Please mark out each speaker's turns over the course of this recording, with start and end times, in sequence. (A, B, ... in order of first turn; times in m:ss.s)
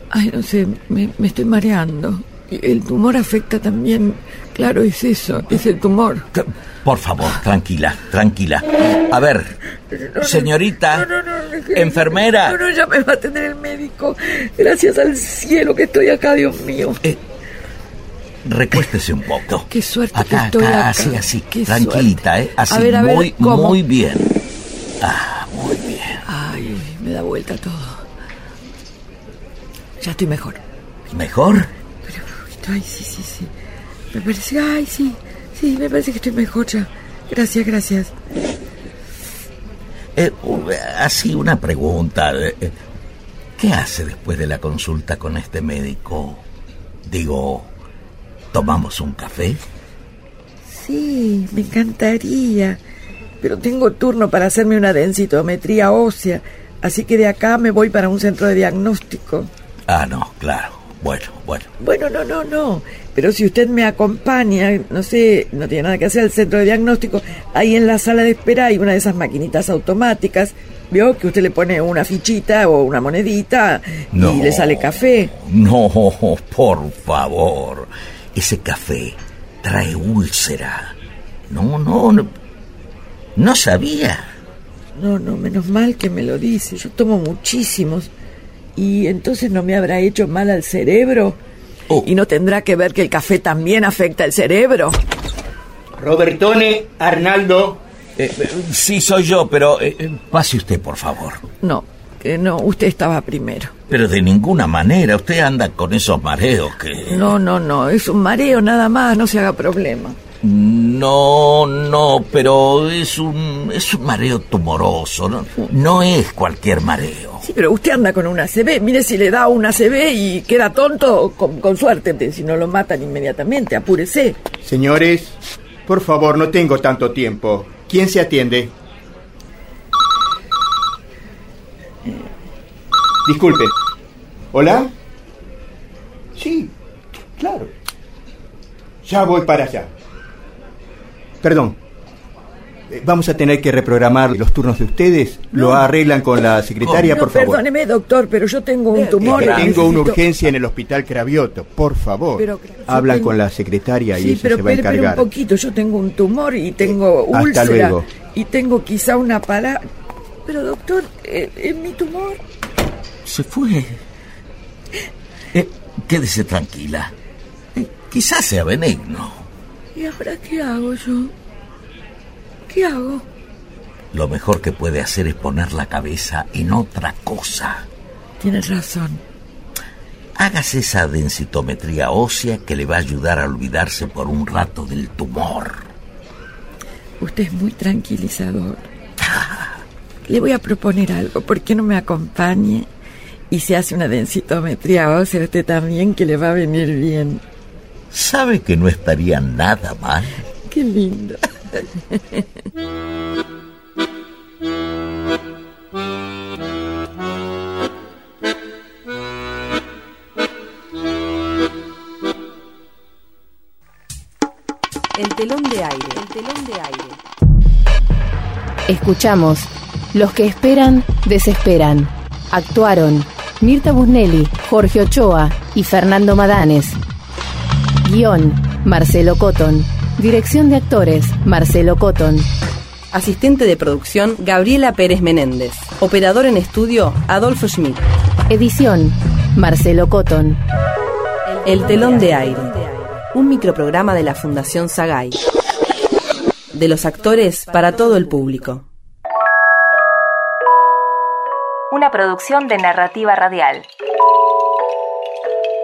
0:00.1-0:06.3 A
0:06.3-0:09.6 B
0:09.9-0:17.0 A
0:10.2-0:11.1 B
0:11.7-0:12.6 B
0:18.4-0:24.3 B
0:19.7-0:23.8 A
0:25.0-0:26.2 B
0:26.2-0:28.0 A
0:30.0-0:30.6 A
0:31.1-0:31.7 B
0:32.0-0:33.5 A
0:34.1-0:38.1 A
0:40.2-0:42.8 B
0:43.6-0:46.4 B
0:47.0-0:47.7 B
0:48.5-0:49.6 B
0:50.7-0:52.8 A
0:53.4-0:59.5 A
0:59.9-1:01.7 B
1:01.8-1:15.3 A
1:14.1-1:21.0 B
1:21.5-1:22.3 B
1:23.4-1:24.3 B
1:25.0-1:28.1 A
1:28.8-1:31.4 A
1:32.0-1:35.0 A
1:36.0-1:37.8 C
1:38.2-1:41.4 B
1:41.6-1:43.7 A
1:43.9-1:47.3 B
1:47.1-1:50.2 A
1:50.4-1:57.4 B
1:57.4-2:04.4 A
2:04.6-2:08.7 C
2:13.3-2:13.7 C
2:14.5-2:14.9 C
2:16.4-2:16.7 C
2:17.4-2:17.7 C
2:19.0-2:19.9 C
2:21.4-2:21.8 C
2:22.9-2:27.6 C
2:25.5-2:25.9 A
2:26.8-2:27.2 B
2:27.1-2:30.2 A
2:28.9-2:35.3 C
2:29.2-2:30.0 B
2:32.4-2:33.4 A
2:34.1-2:39.8 A
2:36.9-2:38.1 C
2:40.4-2:42.4 A
2:43.2-2:44.0 B
2:45.5-2:47.1 B
2:48.0-2:49.5 B
2:49.9-2:51.3 A
2:52.7-2:53.3 A
2:54.1-2:57.9 B
2:58.4-2:59.2 A
3:00.4-3:05.8 B
3:07.2-3:08.9 A
3:09.4-3:09.7 B
3:10.2-3:12.9 A
3:13.5-3:17.4 A
3:18.1-3:20.4 B
3:20.7-3:22.4 A
3:35.2-3:37.2 D
3:38.9-3:47.0 E
3:48.0-3:52.5 E
3:53.1-3:58.1 D
3:58.5-4:00.6 E
4:01.6-4:05.4 D
4:06.7-4:08.9 D
4:11.9-4:13.9 F